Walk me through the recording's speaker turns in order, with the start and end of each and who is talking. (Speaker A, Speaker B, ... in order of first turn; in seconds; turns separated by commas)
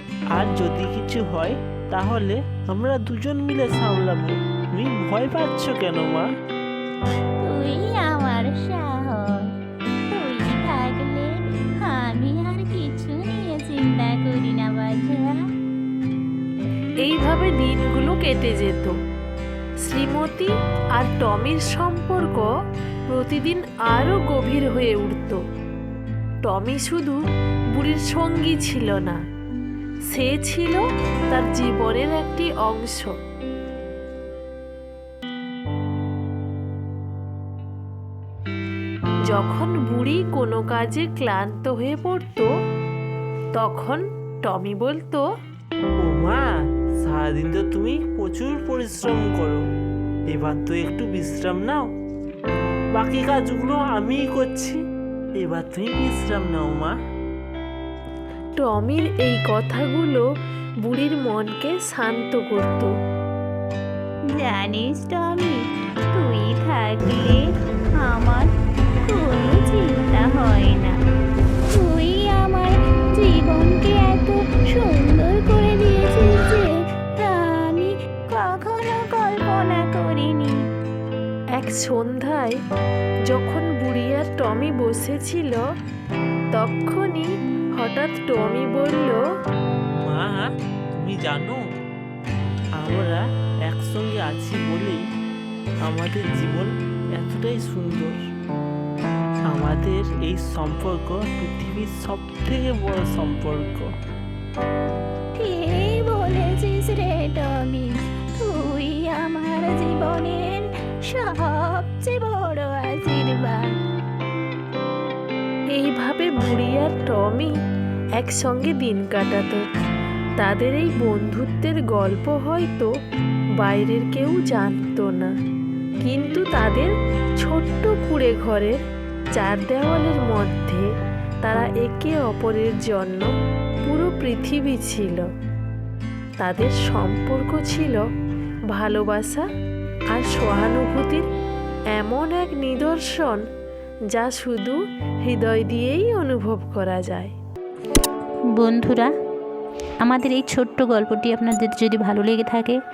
Speaker A: 0.3-6.3, Speaker B: 7.4-9.5, Speaker B: 10.1-15.4, Speaker C: 17.0-18.9, Speaker C: 19.8-22.5, Speaker C: 23.1-25.4, Speaker C: 26.4-27.2, Speaker C: 27.7-29.2, Speaker C: 30.1-33.1, Speaker C: 39.3-42.5, Speaker C: 43.6-45.2, Speaker A: 46.0-46.5, Speaker A: 47.0-49.6, Speaker A: 50.3-51.9, Speaker A: 52.9-54.8, Speaker A: 55.4-57.0, Speaker C: 58.6-60.2, Speaker C: 60.8-62.9, Speaker B: 64.3-68.5, Speaker B: 69.0-71.0, Speaker B: 71.7-80.6, Speaker C: 81.6-82.5, Speaker C: 83.3-85.6, Speaker C: 86.5-89.2, Speaker A: 90.0-91.6, Speaker A: 92.8-95.0, Speaker A: 95.8-98.2, Speaker A: 99.5-103.9, Speaker B: 105.3-113.8, Speaker C: 115.8-117.5, Speaker C: 118.2-119.6, Speaker C: 120.4-122.9, Speaker C: 123.6-125.3, Speaker C: 126.0-128.8, Speaker C: 129.4-130.8, Speaker C: 131.4-133.3, Speaker C: 133.9-135.2, Speaker C: 136.4-138.0, Speaker C: 138.7-139.5, Speaker C: 140.1-141.2, Speaker C: 141.9-143.4, Speaker C: 144.1-147.3, Speaker B: 148.6-149.1, Speaker B: 150.0-152.8